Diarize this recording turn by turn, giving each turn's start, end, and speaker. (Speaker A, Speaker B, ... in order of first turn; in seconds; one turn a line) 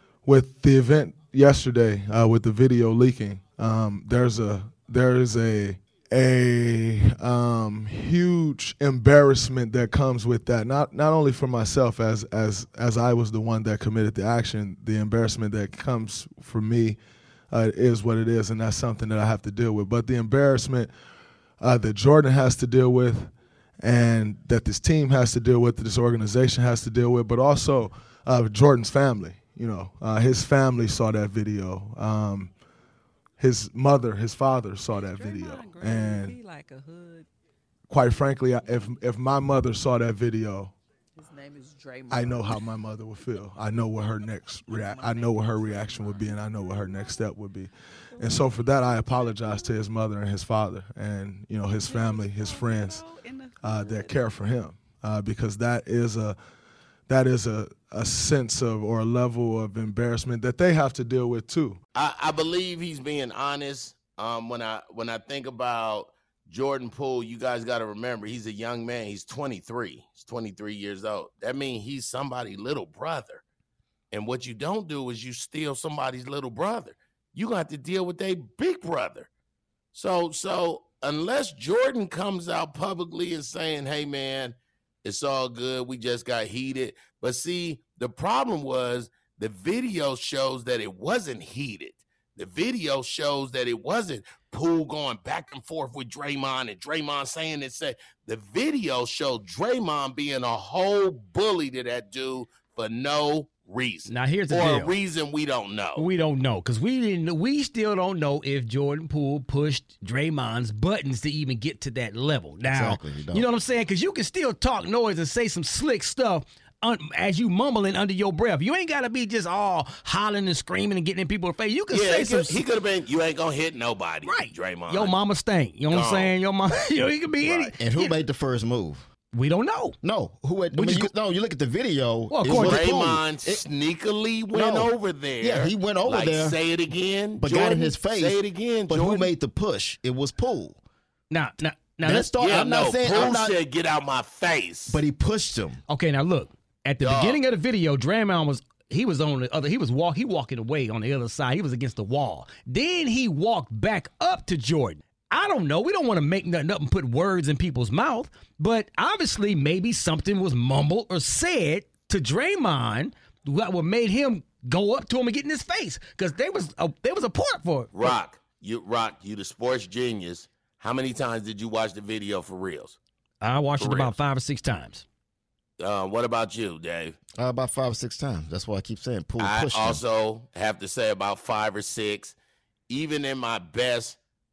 Speaker A: 0.2-17.0
Speaker A: 17.5-20.9
Speaker A: 21.6-32.5
Speaker A: 33.4-36.4
Speaker B: 35.0-37.3
Speaker A: 37.9-40.8
Speaker B: 38.6-38.9
Speaker B: 41.2-42.8
Speaker A: 42.1-53.1
Speaker B: 44.0-47.1
Speaker B: 48.1-49.8
Speaker B: 51.7-54.4
Speaker A: 53.6-56.4
Speaker A: 57.1-61.8
Speaker C: 62.0-73.4
Speaker C: 74.1-79.3
Speaker C: 79.9-106.1
Speaker D: 104.1-104.9
Speaker D: 106.0-122.6
Speaker E: 112.7-113.5
Speaker C: 121.9-125.2
Speaker D: 124.3-128.2
Speaker C: 125.9-126.3
Speaker C: 127.4-127.7
Speaker E: 127.8-129.1
Speaker D: 129.3-130.0
Speaker E: 130.0-133.6
Speaker D: 130.7-131.1
Speaker D: 132.3-132.8
Speaker C: 132.5-139.3
Speaker E: 134.5-136.6
Speaker E: 137.4-140.8
Speaker D: 141.3-142.3
Speaker E: 142.0-143.6
Speaker C: 142.4-145.0
Speaker E: 144.9-145.8
Speaker D: 145.9-168.2
Speaker C: 147.0-147.4
Speaker C: 167.9-173.0
Speaker D: 173.4-175.1
Speaker C: 173.8-174.1
Speaker C: 175.8-177.2
Speaker E: 177.4-180.0
Speaker C: 179.4-182.3
Speaker C: 182.9-184.2